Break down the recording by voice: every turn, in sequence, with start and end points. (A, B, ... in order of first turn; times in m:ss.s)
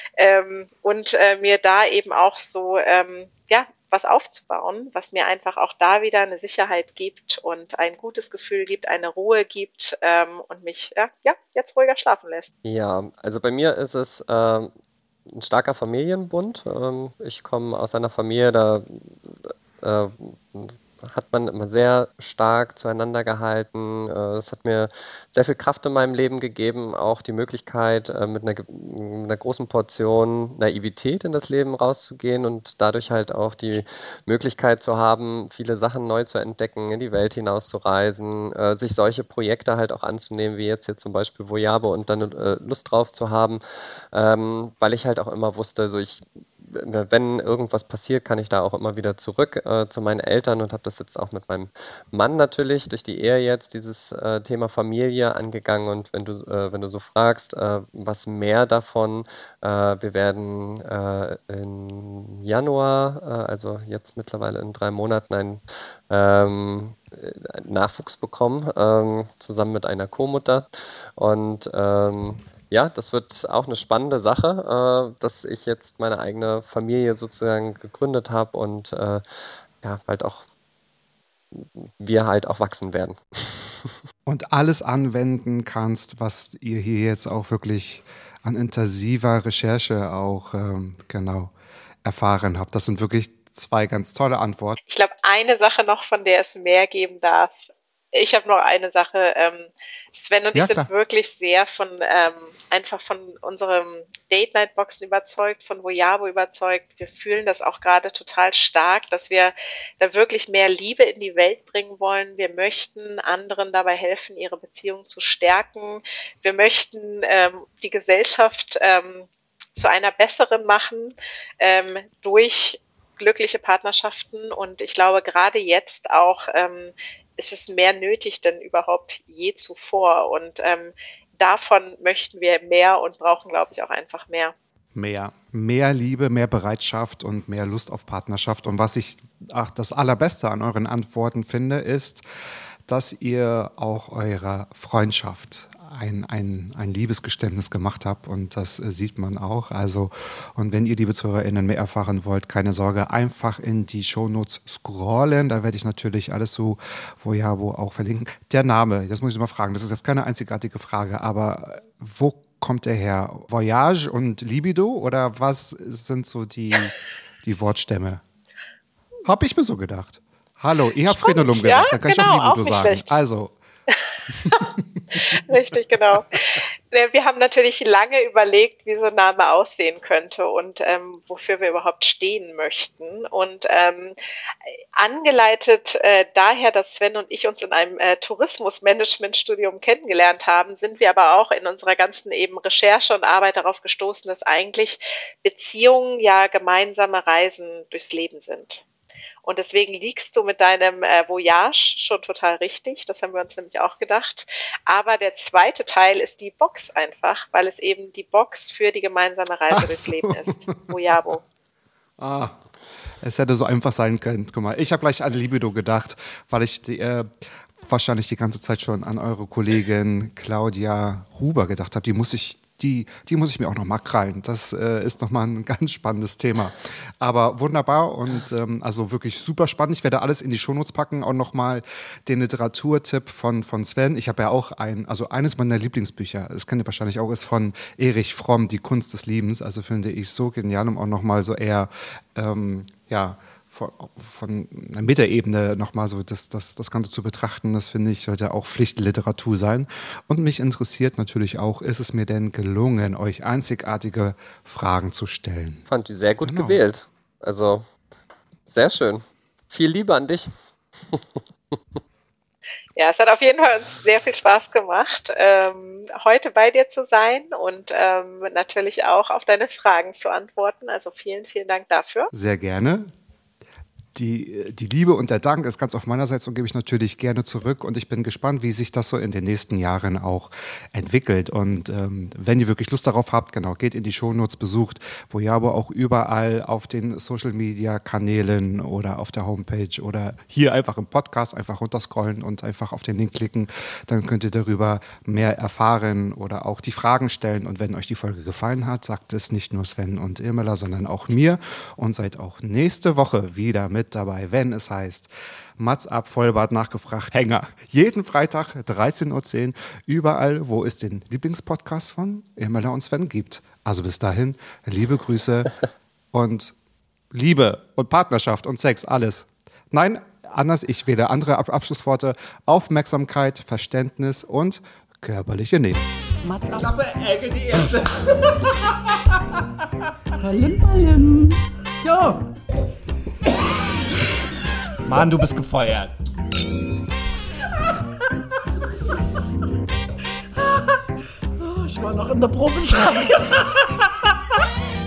0:00.2-0:12.5 A
0:12.6-0:14.7 B
0:15.3-0:43.6 B
0:44.1-1:19.2 B
1:19.8-1:20.4 B
1:21.5-1:24.0 B
1:24.3-1:31.5 C
1:32.0-1:34.8 C
1:34.9-2:14.6 A
1:40.5-1:40.9 C
2:15.0-2:22.2 C
2:22.9-2:48.2 C
2:49.2-2:53.5 C
2:51.1-2:53.1 A
2:53.9-3:04.2 A
2:54.3-2:55.5 C
3:04.6-3:18.8 A
3:19.4-3:31.4 A
3:29.7-3:30.7 C
3:32.2-3:32.6 C
3:33.2-4:15.8 C
4:15.9-4:17.8 B
4:16.4-4:16.8 C
4:18.7-4:20.5 B
4:21.0-4:21.8 B
4:23.0-4:32.3 A
4:32.3-4:33.1 C
4:34.2-5:15.7 C
5:16.3-5:16.7 C
5:17.3-5:26.0 C
5:26.4-5:27.0 D
5:26.7-5:29.2 C
5:30.4-5:32.5 D
5:35.0-5:36.1 C
5:41.6-5:43.6 D
5:42.7-5:43.2 C